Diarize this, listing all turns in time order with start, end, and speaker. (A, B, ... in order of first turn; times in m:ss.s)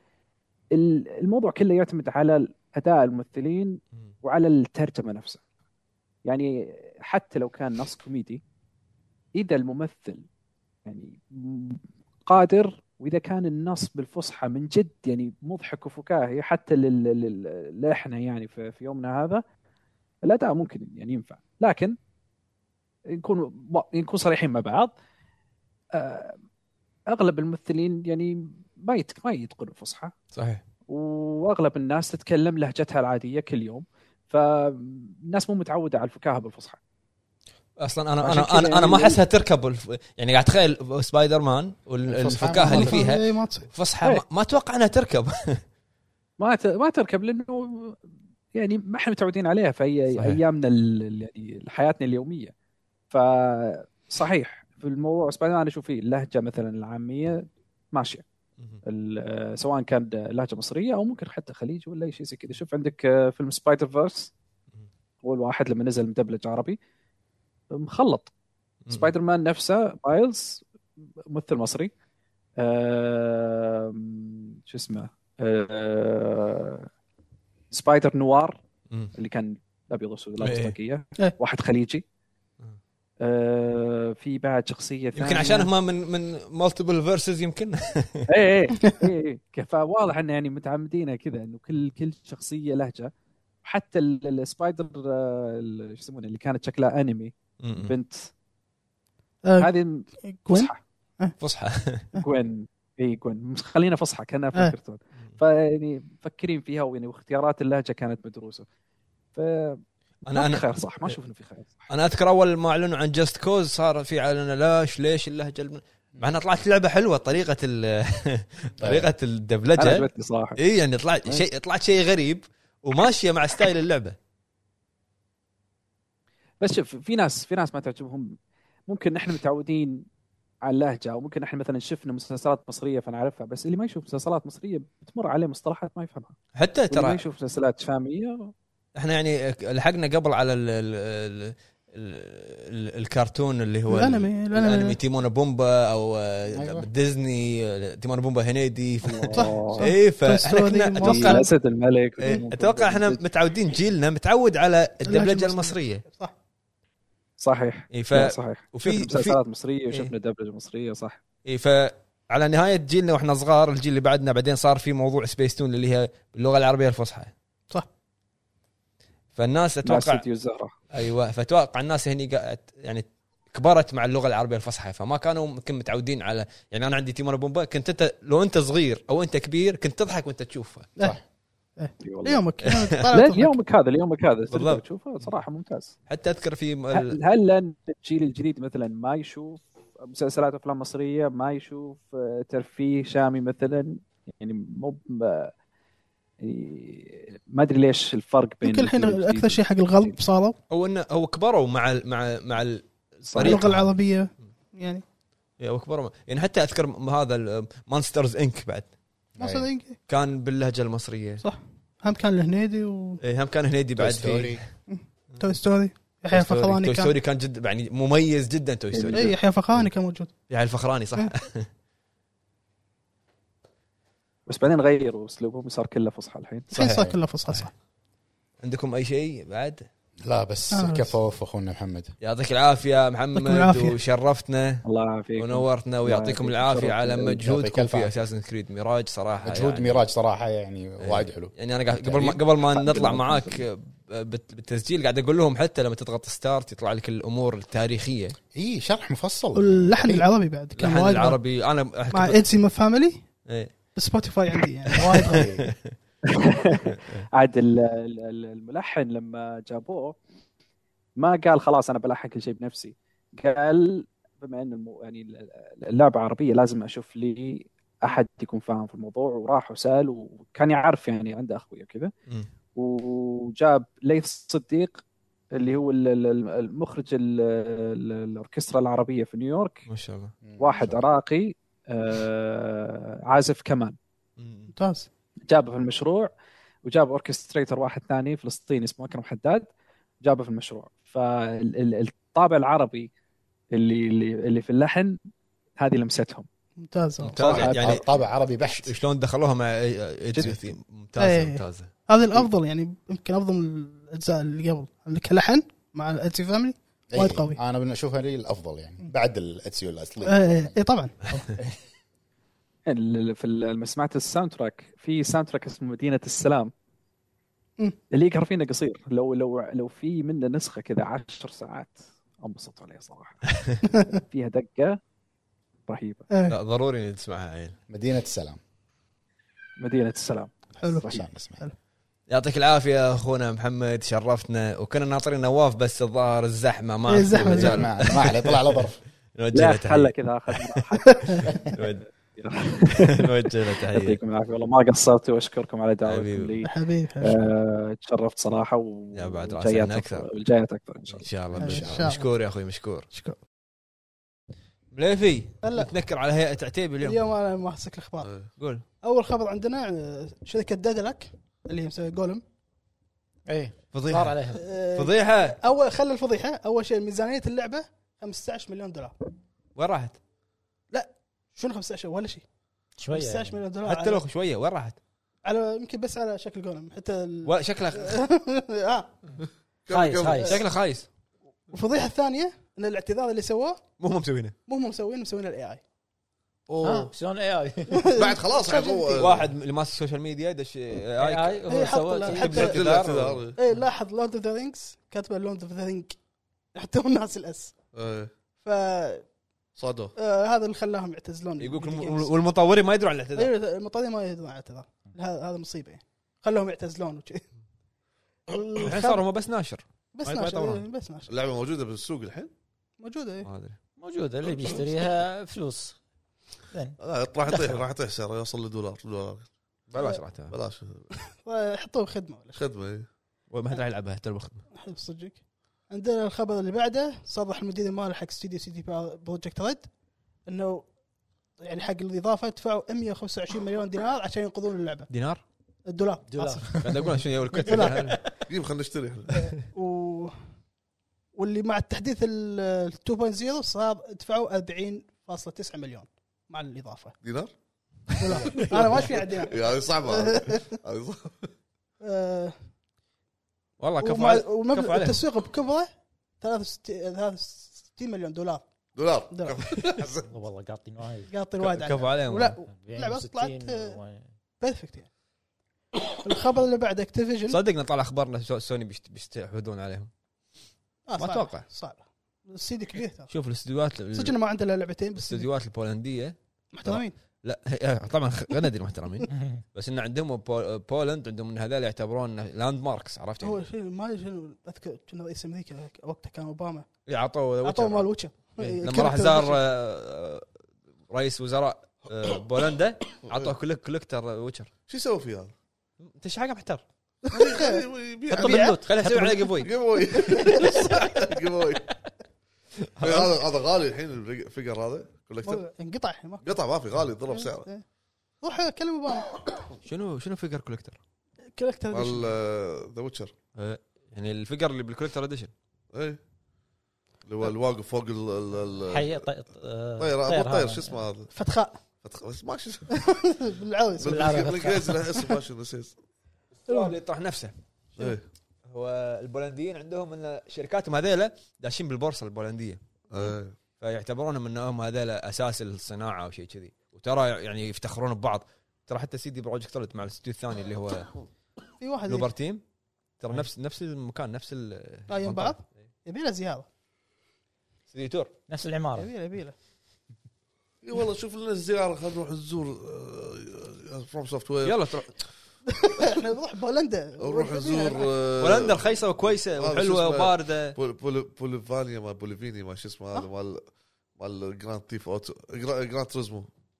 0:00.7-0:05.4 A
0:06.2-0:08.4 A
0:09.3-0:10.2 A
0:10.8-0:19.4 A
0:20.2-0:22.0 A
0:23.1-0:24.9 A
0:25.9-0:26.3 A
0:27.1-0:30.1 A
0:30.3-0:30.6 B
0:30.9-0:36.8 A
0:37.8-0:45.6 B
0:38.2-0:39.2 A
0:42.1-0:43.0 C
0:42.6-0:43.7 D
0:46.4-0:48.0 A
0:48.5-0:52.5 A
0:50.1-0:50.4 B
0:53.1-0:58.2 A
0:58.8-1:04.3 A
1:05.2-1:06.8 A
1:07.7-1:08.3 A
1:08.9-1:09.1 B
1:08.9-1:10.6 A
1:11.3-1:11.9 A
1:12.6-1:16.9 A
1:17.7-1:18.6 A
1:19.1-1:22.0 A
1:20.4-1:20.8 B
1:23.2-1:25.7 A
1:25.2-1:28.2 B
1:28.3-1:33.1 A
1:28.8-1:29.1 D
1:33.6-1:38.3 A
1:37.6-1:37.9 B
1:39.4-1:39.7 D
1:39.6-1:40.8 A
1:40.2-1:41.3 D
1:41.4-1:42.1 B
1:42.2-1:48.6 A
1:49.3-1:49.8 A
1:50.2-1:51.2 B
1:50.3-1:51.9 A
1:51.9-2:04.2 B
1:58.8-1:59.1 C
1:59.8-2:00.6 A
2:06.6-2:08.4 A
2:08.9-2:10.0 A
2:10.6-2:16.4 A
2:16.5-2:17.2 B
2:16.9-2:18.5 A
2:19.0-2:31.4 B
2:23.9-2:25.0 D
2:26.5-2:26.9 C
2:29.0-2:29.9 A
2:29.3-2:31.5 D
2:31.0-2:33.2 A
2:32.2-2:36.0 B
2:35.0-2:36.3 D
2:37.4-2:41.2 A
2:37.9-2:39.4 B
2:41.4-2:47.3 B
2:49.4-2:50.2 B
2:49.8-2:50.8 A
2:50.9-3:00.9 B
3:01.8-3:03.6 D
3:02.0-3:02.5 A
3:02.6-3:03.0 B
3:03.1-3:05.9 A
3:04.5-3:05.4 B
3:06.1-3:07.2 B
3:06.9-3:15.5 A
3:16.4-3:20.2 A
3:18.6-3:20.6 D
3:20.7-3:23.9 B
3:23.3-3:23.6 A
3:23.4-3:25.0 D
3:25.6-3:28.9 B
3:29.4-3:29.6 C
3:29.4-3:30.0 D
3:30.1-3:31.4 B
3:31.4-3:33.2 D
3:33.2-3:34.6 B
3:34.0-3:34.6 C
3:34.9-3:37.1 D
3:36.3-3:39.8 B
3:38.9-3:39.4 A
3:39.1-3:40.3 D
3:40.5-3:41.7 B
3:44.5-3:46.8 A
3:46.7-3:47.7 D
3:46.8-3:47.2 C
3:48.6-3:49.8 B
3:50.2-3:52.1 C
3:50.7-3:51.1 D
3:52.2-3:54.8 B
3:53.3-3:54.0 D
3:54.8-3:57.4 A
3:55.4-4:00.0 B
3:57.2-3:58.2 C
3:59.4-4:03.5 C
4:01.0-4:08.4 B
4:08.5-4:10.2 C
4:09.5-4:11.4 D
4:10.8-4:12.4 B
4:12.1-4:13.2 D
4:13.4-4:13.7 B
4:13.9-4:15.5 D
4:14.9-4:15.9 B
4:15.3-4:15.6 C
4:16.3-4:20.2 A
4:21.2-4:32.1 A
4:32.7-4:39.8 A
4:39.9-4:40.3 B
4:40.4-4:41.0 C
4:40.6-4:44.0 A
4:44.4-4:44.7 B
4:44.7-4:45.1 D
4:45.5-4:46.3 A
4:46.8-4:49.7 A
4:50.2-4:53.1 A
4:53.7-4:55.2 A
4:55.8-4:56.5 A
4:56.8-4:57.4 D
4:57.2-4:58.0 B
4:57.4-4:58.9 C
4:57.4-4:58.0 A
4:58.6-5:01.9 B
5:00.3-5:00.6 A
5:01.2-5:07.6 D
5:07.1-5:10.7 C
5:10.2-5:11.1 D
5:12.9-5:16.7 A
5:18.1-5:23.4 A
5:23.8-5:24.2 D
5:24.3-5:25.0 A
5:25.9-5:26.2 A
5:26.3-5:26.6 D
5:26.5-5:27.8 B
5:27.9-5:28.6 C
5:29.8-5:30.5 A
5:30.8-5:31.7 D
5:30.9-5:31.6 C
5:32.3-5:40.8 B
5:37.1-5:37.9 D
5:37.3-5:39.0 C
5:39.5-5:41.7 A
5:41.1-5:41.4 D
5:41.6-5:42.0 B
5:42.2-5:51.3 A
5:42.9-5:44.2 B
5:46.0-5:46.6 B
5:46.6-5:47.4 D
5:49.1-5:50.3 B
5:51.1-5:53.1 B
5:51.6-5:52.1 C
5:51.6-5:52.3 D
5:53.1-5:53.4 D
5:54.9-5:57.2 B
5:55.6-5:55.9 D
5:57.0-5:58.3 D
5:58.2-5:58.5 E
5:58.6-5:58.8 B
5:59.0-6:02.4 D
6:03.5-6:04.6 F
6:03.9-6:04.4 B
6:04.5-6:09.2 D
6:04.9-6:05.6 B
6:09.8-6:10.2 B
6:10.9-6:12.4 D
6:13.0-6:13.6 F
6:13.1-6:14.2 D
6:13.8-6:15.0 B
6:15.4-6:19.1 D
6:17.4-6:18.2 B
6:19.8-6:20.6 E
6:19.9-6:20.6 F
6:20.5-6:21.1 B
6:21.7-6:23.8 D
6:24.0-6:24.5 B
6:24.7-6:25.8 D
6:26.7-6:27.1 E
6:26.8-6:28.0 F
6:27.9-6:29.3 D
6:28.2-6:29.5 E
6:29.2-6:31.6 B
6:31.2-6:32.7 F
6:31.7-6:32.8 D
6:32.3-6:33.4 B
6:32.5-6:33.6 E
6:33.6-6:36.2 D
6:36.7-6:37.8 D
6:37.9-6:38.3 E
6:38.6-6:39.3 D
6:39.8-6:40.1 E
6:40.2-6:42.4 D
6:41.6-6:43.5 B
6:43.3-6:47.5 D
6:48.5-6:49.3 D
6:48.8-6:50.8 B
6:50.1-6:51.3 D
6:51.3-6:52.5 E
6:53.0-6:53.5 D
6:53.4-6:53.8 B
6:54.0-6:56.0 F
6:54.4-6:55.0 E
6:56.7-6:57.8 F
6:57.0-6:59.5 E
6:59.9-7:00.6 B
7:00.5-7:01.1 E
7:01.1-7:02.6 D
7:02.5-7:03.1 E
7:03.5-7:04.6 B
7:04.7-7:05.4 D
7:05.9-7:09.9 D
7:10.4-7:10.9 D
7:11.6-7:15.1 D
7:15.1-7:15.4 B
7:15.8-7:17.1 D
7:16.3-7:18.3 F
7:16.8-7:18.2 B
7:17.6-7:18.4 D
7:18.5-7:19.4 E
7:19.4-7:20.5 D
7:21.3-7:27.2 D
7:27.2-7:27.5 E
7:28.2-7:30.8 D
7:28.4-7:28.7 B
7:28.6-7:31.5 E
7:32.0-7:32.6 D
7:33.8-7:35.2 B
7:34.0-7:38.6 D
7:38.9-7:40.3 E
7:39.3-7:39.6 D
7:40.2-7:41.3 F
7:41.3-7:44.0 D
7:41.6-7:42.6 B
7:42.7-7:44.3 F
7:44.6-7:45.1 D
7:46.1-7:47.6 D
7:47.5-7:50.1 B
7:51.1-7:53.3 D
7:51.2-7:51.7 B
7:53.3-7:54.3 B
7:54.1-7:55.5 D
7:55.2-8:03.6 B
7:56.7-7:57.2 D
8:03.4-8:06.8 D
8:07.1-8:10.4 B
8:07.6-8:09.6 D
8:11.1-8:14.7 B
8:13.2-8:13.5 E
8:14.9-8:15.5 E
8:16.0-8:16.8 B
8:17.2-8:18.8 D
8:17.3-8:18.8 E
8:18.3-8:19.7 B
8:19.5-8:21.9 E
8:20.3-8:21.0 D
8:23.0-8:25.6 E
8:23.0-8:23.3 B
8:25.4-8:26.5 D
8:26.4-8:27.7 E
8:27.3-8:27.8 D
8:28.4-8:29.4 D
8:29.8-8:31.0 B
8:31.5-8:32.3 D
8:31.9-8:33.3 E
8:33.5-8:35.5 B
8:35.9-8:36.2 E
8:37.2-8:39.2 E
8:38.9-8:41.0 F
8:40.0-8:41.3 E
8:41.3-8:41.8 D
8:42.0-8:42.9 E
8:42.9-8:44.4 D
8:44.0-8:46.0 E
8:44.0-8:45.0 F
8:46.6-8:47.5 B
8:46.7-8:46.9 D
8:48.0-8:48.2 E
8:48.7-8:52.8 B
8:53.1-8:53.6 E
8:53.8-9:01.1 B
9:01.8-9:02.3 D
9:02.1-9:02.6 B
9:03.2-9:05.7 B
9:05.1-9:06.7 D
9:07.9-9:08.3 B
9:08.5-9:09.1 F
9:09.0-9:09.5 D
9:10.8-9:14.8 E
9:14.6-9:15.1 B
9:15.7-9:18.1 D
9:17.2-9:23.6 E
9:18.4-9:20.8 B
9:24.2-9:26.5 E